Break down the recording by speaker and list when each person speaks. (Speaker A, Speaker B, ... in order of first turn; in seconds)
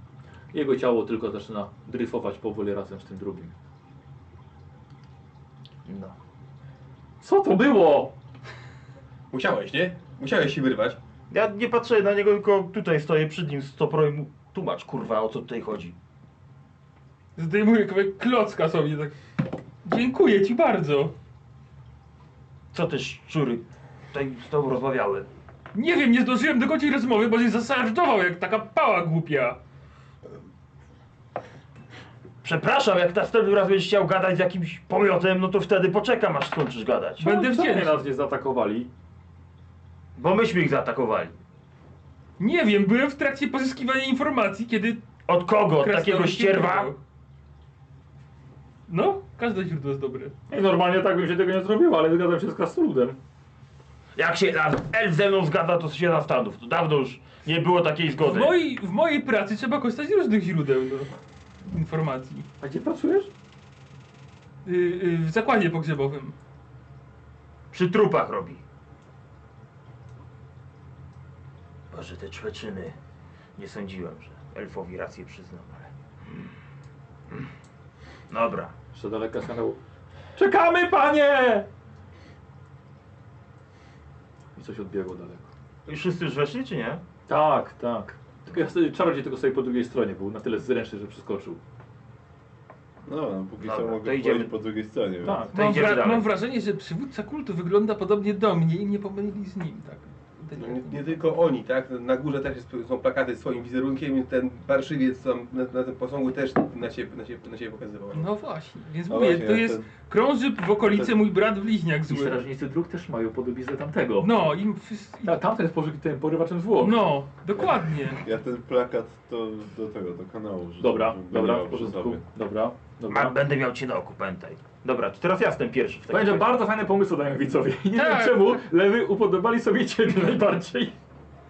Speaker A: 0.5-3.5, 7.2-8.1, 37.2-38.9, 50.5-53.2, 62.6-63.3, 78.9-79.8, 80.3-81.7, 84.5-85.5, 87.3-91.6, 95.2-96.0, 112.1-114.3, 115.2-117.1, 120.8-123.4, 126.1-130.9
Speaker B: 5.8-6.1, 11.3-15.9, 22.7-25.3, 32.4-37.2, 40.1-41.4, 45.2-46.9, 54.1-58.6, 67.7-68.6, 71.9-73.0, 73.5-75.9, 78.3-78.7, 85.8-87.0, 93.6-94.5, 95.5-96.3, 123.1-126.5
Speaker C: 9.3-11.0, 100.5-108.3
Speaker D: 17.4-19.1, 19.8-21.1, 25.7-29.6, 37.2-38.0, 42.4-45.0, 45.8-47.0, 48.9-50.3, 58.2-61.1, 61.6-62.5, 64.6-66.3, 95.5-101.2, 108.1-112.4, 114.2-115.4, 116.8-118.2, 127.9-128.6
Speaker E: 93.0-95.5, 109.1-109.9, 110.8-111.1, 117.5-122.3